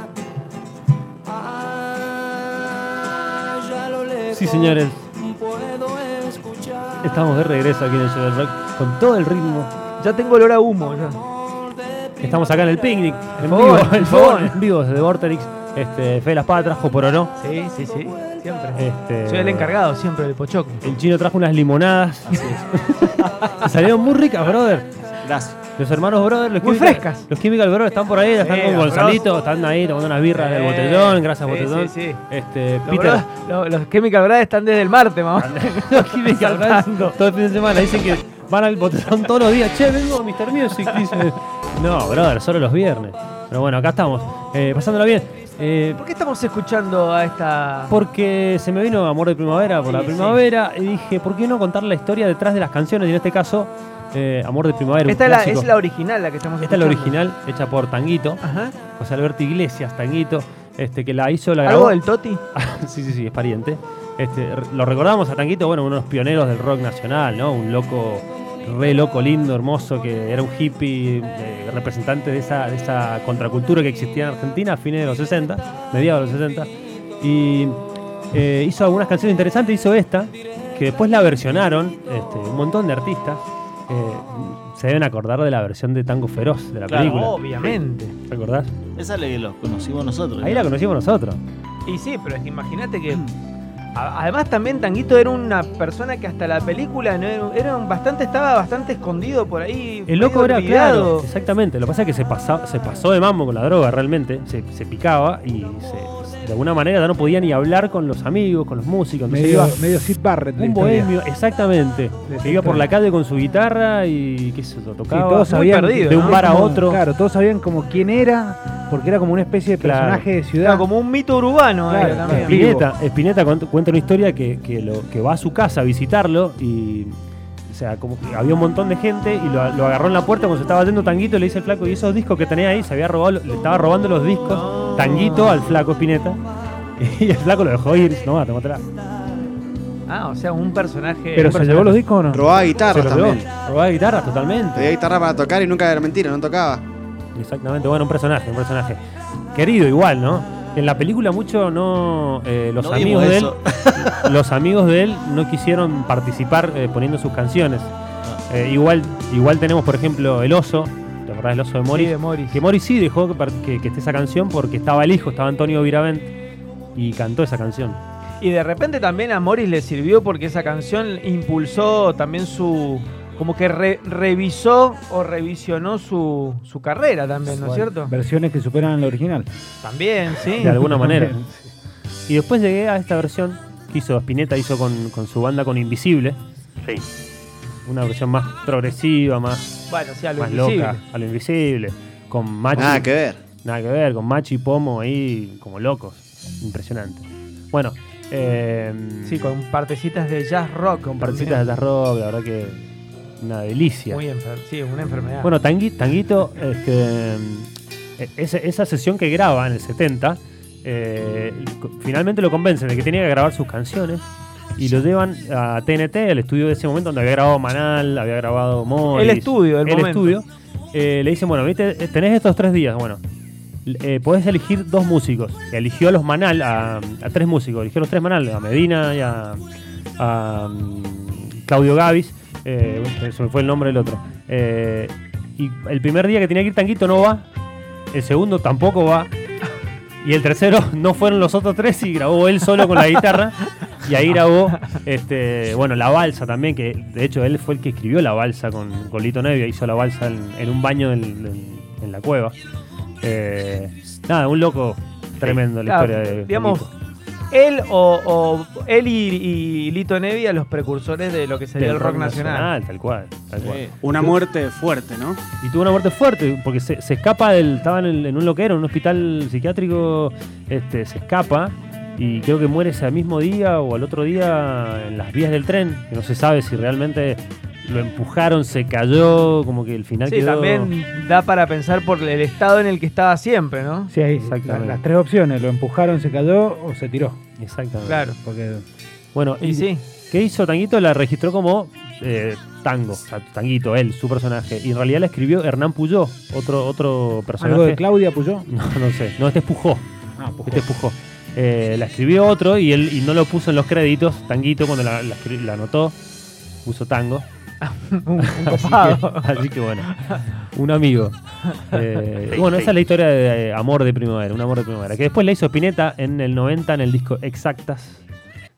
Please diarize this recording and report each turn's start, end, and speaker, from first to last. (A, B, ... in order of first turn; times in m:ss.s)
0:04.3-0:05.1 A
0:06.9-0:09.7 A
0:10.0-0:11.2 B
0:12.2-0:17.3 A
0:13.4-0:14.6 B
0:17.4-0:20.9 B
0:18.8-0:19.8 A
0:20.8-0:24.9 A
0:22.3-0:22.6 C
0:25.2-0:25.6 C
0:25.8-0:33.3 A
0:26.6-0:27.3 B
0:28.4-0:29.2 B
0:30.3-0:32.2 B
0:32.9-0:37.1 B
0:35.4-0:46.0 A
0:46.0-0:47.9 B
0:47.9-0:55.7 A
0:49.9-0:50.4 B
0:55.1-0:57.2 B
0:56.6-1:02.0 A
0:58.4-0:58.8 B
1:01.6-1:02.4 B
1:02.5-1:16.7 A
1:17.2-1:17.8 A
1:18.3-1:27.4 A
1:26.9-1:27.8 C
1:27.1-1:28.2 B
1:28.2-1:28.7 A
1:29.0-1:30.8 C
1:30.4-1:31.4 A
1:31.9-1:33.3 B
1:34.0-1:41.3 B
1:40.1-1:49.8 A
1:49.3-1:51.1 D
1:50.6-1:55.5 A
1:52.3-1:52.9 D
1:55.1-2:00.9 D
1:55.4-1:56.4 B
1:56.1-1:57.0 A
1:59.8-2:00.3 A
2:00.6-2:02.7 B
2:01.9-2:02.9 D
2:02.0-2:07.1 A
2:07.7-2:16.4 A
2:14.5-2:15.8 B
2:17.0-2:18.8 A
2:20.1-2:21.7 B
2:21.4-2:22.5 D
2:21.7-2:22.0 A
2:22.3-2:23.4 E
2:22.9-2:25.0 A
2:24.8-2:26.8 E
2:27.4-2:29.0 A
2:29.5-2:37.9 A
2:32.8-2:34.4 C
2:38.5-2:46.3 A
2:41.9-2:42.6 B
2:47.0-2:48.0 A
2:48.4-2:58.1 B
2:57.5-2:59.5 D
2:59.8-3:00.8 B
3:00.6-3:01.5 A
3:00.6-3:01.4 D
3:02.3-3:07.0 A
3:07.8-3:09.7 A
3:09.9-3:11.0 B
3:10.4-3:19.6 A
3:12.8-3:13.4 E
3:19.2-3:21.7 B
3:21.1-3:22.9 A
3:23.4-3:24.2 A
3:24.1-3:25.5 B
3:25.4-3:43.2 A
3:39.1-3:40.4 B
3:43.8-3:49.6 A
3:50.2-3:57.5 A
3:58.1-3:59.3 A
4:00.2-4:12.6 A
4:13.2-4:16.9 A
4:15.7-4:16.9 B
4:17.5-4:22.7 B
4:21.8-4:24.4 A
4:23.6-4:24.5 C
4:25.6-4:40.9 A
4:40.3-4:44.1 B
4:44.1-4:47.4 D
4:44.4-4:45.0 A
4:47.6-4:48.3 A
4:48.0-4:48.4 B
4:48.4-4:48.8 D
4:49.4-4:58.0 A
4:49.6-4:50.0 B
4:57.6-4:58.7 D
4:58.7-5:00.0 A
5:00.4-5:00.9 D
5:00.7-5:06.2 A
5:06.8-5:07.4 A
5:07.8-5:09.5 B
5:08.4-5:10.1 A
5:10.1-5:10.4 B
5:10.7-5:11.4 A
5:11.9-5:18.2 A